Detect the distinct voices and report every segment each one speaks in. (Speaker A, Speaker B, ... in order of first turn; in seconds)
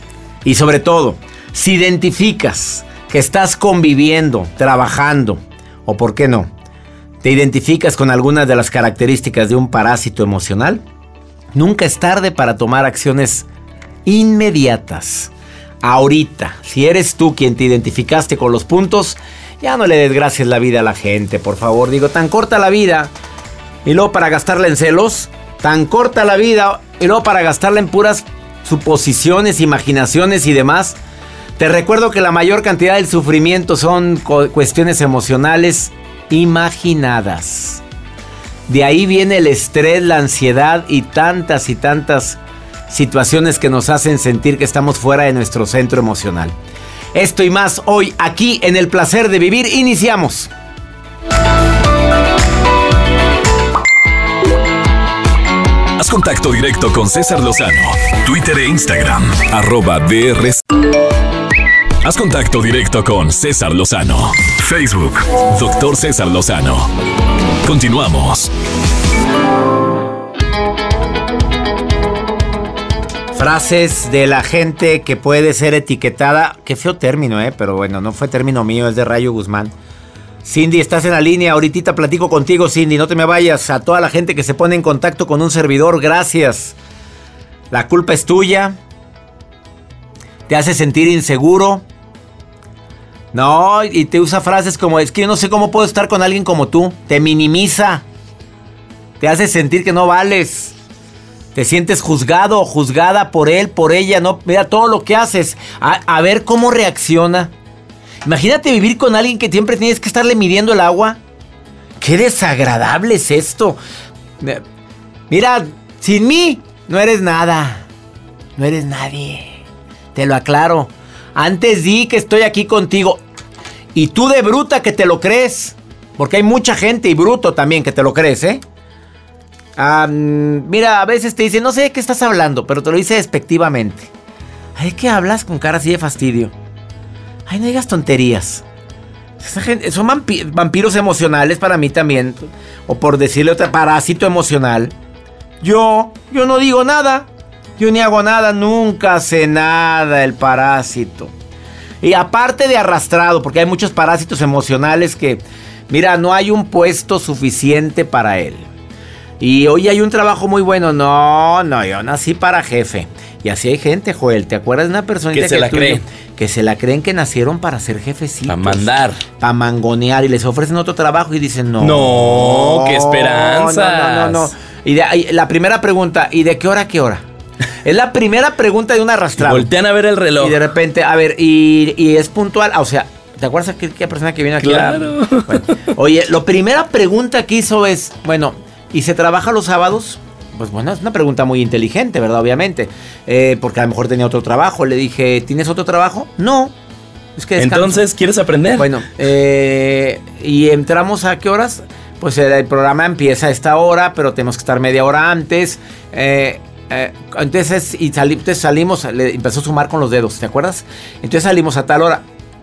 Speaker A: 0.4-6.5, 7.2-10.8, 11.5-13.4, 14.1-23.1, 23.8-31.0, 31.6-37.8, 38.7-46.5, 47.1-50.5, 73.3-79.7, 80.4-86.8, 87.7-88.8, 90.5-91.8, 93.3-98.0, 99.2-100.7, 101.5-107.5, 108.2-111.2, 112.0-113.8, 115.3-117.8, 118.6-119.6, 120.1-123.2, 123.9-128.6, 129.8-134.1, 134.8-136.5, 137.5-138.6, 139.4-144.9, 145.6-151.3, 152.0-158.7, 159.4-177.2, 177.8-179.7, 180.4-196.7, 197.3-198.1, 198.7-212.2
Speaker B: 56.0-60.6, 62.0-66.9, 67.6-68.5
Speaker C: 165.3-166.0, 168.5-169.2, 171.8-174.5, 179.4-180.6, 184.6-185.7, 197.6-198.9